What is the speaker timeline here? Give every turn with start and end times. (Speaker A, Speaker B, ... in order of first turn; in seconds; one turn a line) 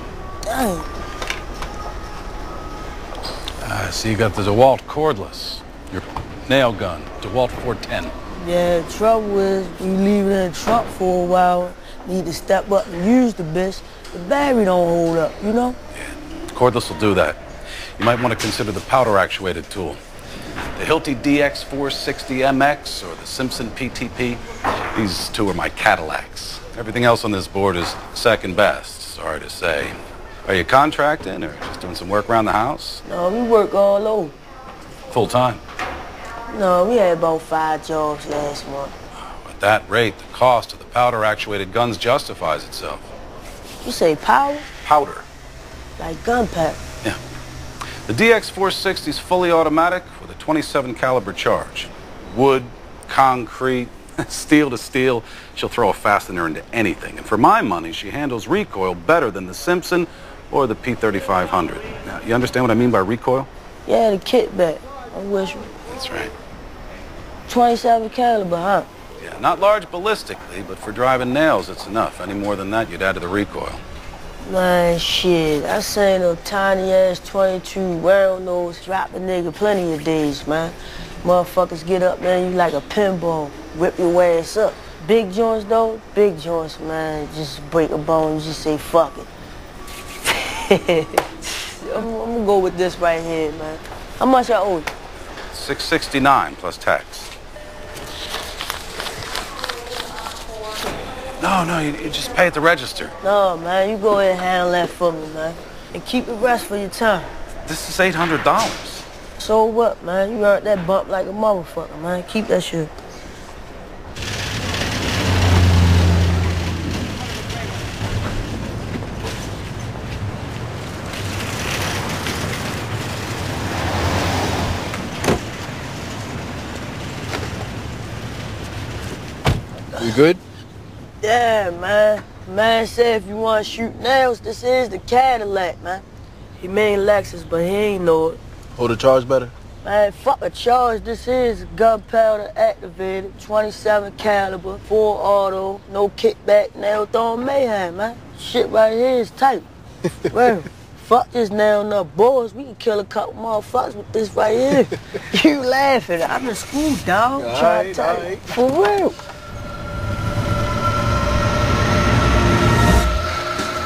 Speaker A: 0.5-0.9
Speaker B: 3.6-8.1
Speaker A: 8.4-15.8
Speaker B: 15.9-17.4
Speaker B: 18.0-20.0
Speaker B: 20.8-24.4
Speaker B: 24.9-33.0
Speaker A: 33.0-34.4
Speaker B: 35.1-35.6
Speaker A: 36.5-38.9
Speaker B: 39.2-43.1
Speaker A: 43.8-44.7
Speaker B: 44.8-45.3
Speaker A: 46.0-46.8
Speaker B: 48.1-63.5
Speaker A: 63.9-65.7
Speaker B: 65.9-66.3
Speaker A: 67.5-68.9
Speaker B: 69.2-73.8
Speaker A: 74.4-89.3
Speaker A: 90.2-94.9
Speaker B: 95.5-97.3
Speaker B: 101.4-103.2
Speaker A: 103.2-107.3
Speaker B: 107.7-109.0
Speaker A: 109.4-112.9
Speaker A: 130.0-130.2
Speaker C: 130.0-130.4
Speaker A: 131.2-136.0
Speaker A: 136.6-138.4
Speaker C: 138.8-139.5
Speaker A: 139.8-149.7
Speaker A: 150.2-159.2
Speaker C: 157.4-158.5